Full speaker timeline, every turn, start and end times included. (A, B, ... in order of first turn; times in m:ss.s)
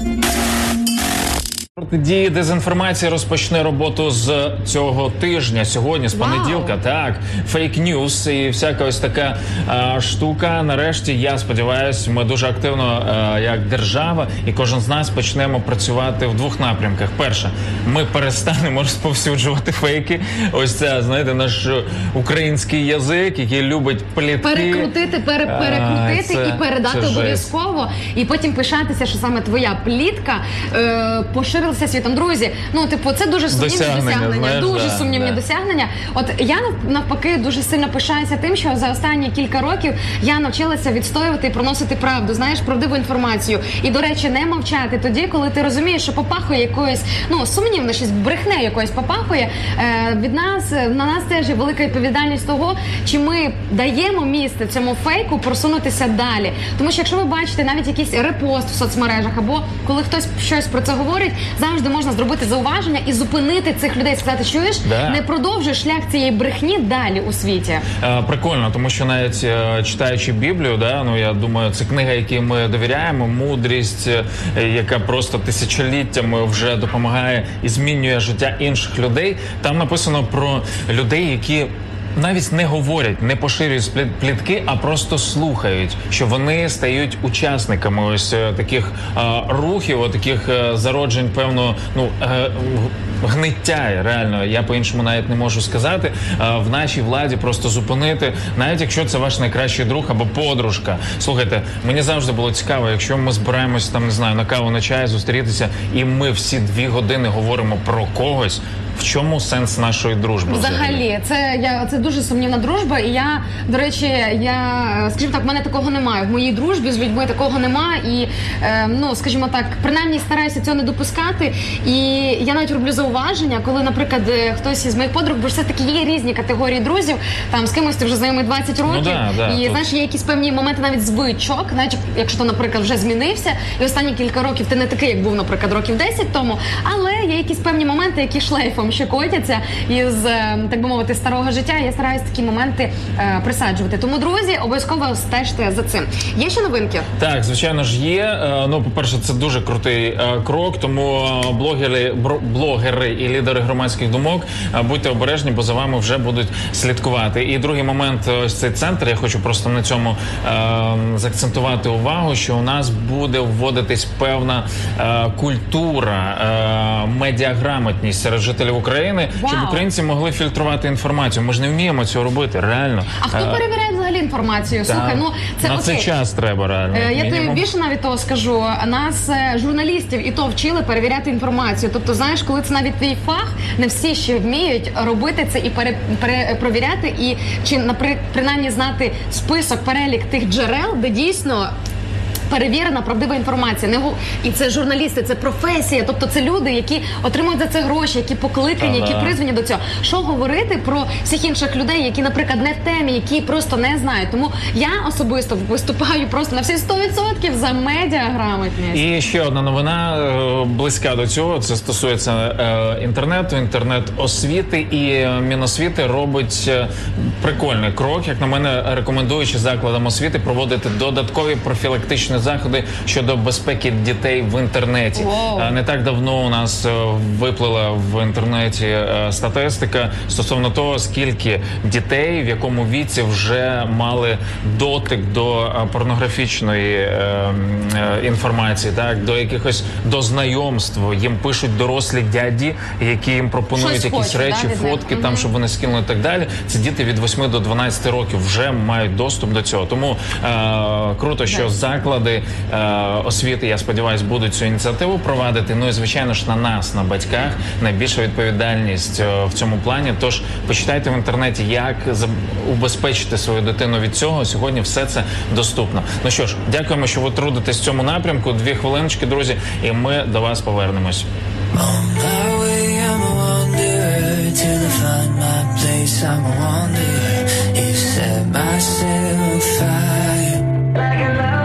0:01.8-0:24.9 A
0:06.1-0:06.8 B
0:24.4-1:07.8 B
0:25.4-0:27.5 A
0:33.5-0:35.4 A
1:04.8-1:05.2 A
1:08.0-1:51.0 A
1:50.4-2:27.1 B
2:08.8-2:09.9 A
2:27.2-2:53.6 A
2:49.3-2:49.8 B
2:53.2-2:56.1 B
2:54.8-2:57.6 A
2:56.9-3:11.7 B
3:12.5-3:29.1 B
3:18.8-3:19.4 A
3:28.9-4:31.3 A
3:45.1-3:45.7 B
4:03.7-4:05.5 B
4:31.7-4:40.6 C